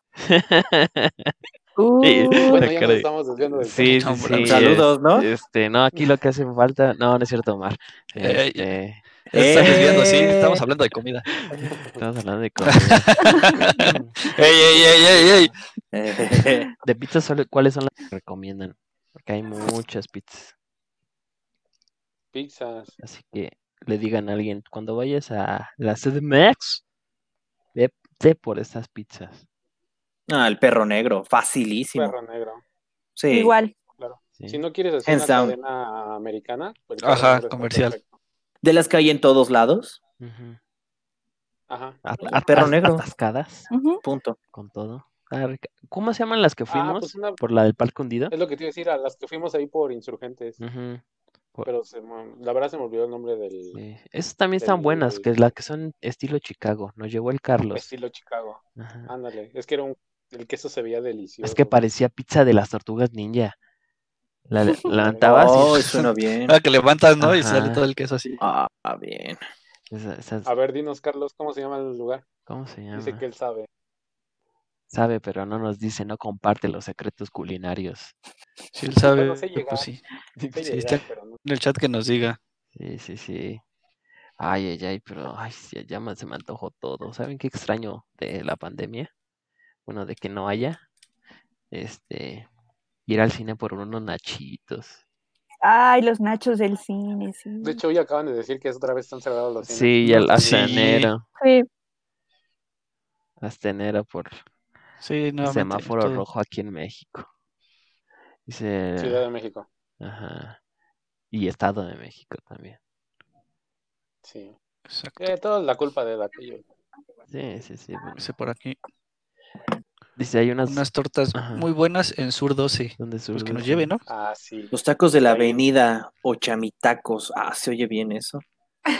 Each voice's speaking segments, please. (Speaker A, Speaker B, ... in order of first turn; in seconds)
Speaker A: 0.2-1.3, 2.0-9.0, 9.6-9.8, 11.4-13.1, 13.7-14.1, 16.8-20.5, 23.0-26.8, 27.7-29.4, 40.2-40.6, 42.0-43.7, 44.5-48.4, 50.6-51.0, 53.7-57.9, 58.8-59.1, 61.4-63.6, 64.5-65.9, 67.2-67.8, 69.9-70.5, 72.5-73.2, 74.9-78.1, 80.4-80.7, 82.8-83.6, 84.4-89.1, 89.9-90.8, 91.7-92.5, 93.1-95.0, 99.6-101.2, 103.4-104.4, 105.4-107.3, 108.5-109.2, 110.0-110.6, 111.3-112.8, 117.3-118.2, 120.2-121.7, 123.0-123.9
Speaker B: 1.8-2.7, 33.3-33.7, 43.7-44.0, 95.6-97.8, 101.4-101.7
Speaker C: 2.5-4.4, 11.6-12.0, 13.8-15.6, 22.3-23.0, 31.9-32.6, 33.9-38.1, 41.7-42.1, 46.7-47.4, 48.3-50.6, 51.6-53.8, 54.6-55.3, 57.7-61.8, 65.0-65.4, 70.5-72.3, 72.9-73.7, 79.0-79.9, 80.5-81.4, 97.6-100.9, 109.0-109.7, 114.2-114.6, 115.2-116.6, 124.1-125.6
Speaker D: 4.0-4.6, 8.2-8.7, 9.3-11.3, 12.7-15.5, 37.0-38.0, 65.9-68.4, 78.8-80.0, 80.6-82.4, 100.0-101.1, 105.0-106.2, 114.9-115.3, 118.2-118.8, 120.7-124.0
Speaker E: 4.4-5.3, 9.3-10.6, 15.9-16.7, 30.3-32.2, 33.2-33.5, 35.0-35.5, 38.6-40.0, 42.2-43.0, 44.0-44.4, 65.2-66.6, 68.4-69.4, 124.7-128.4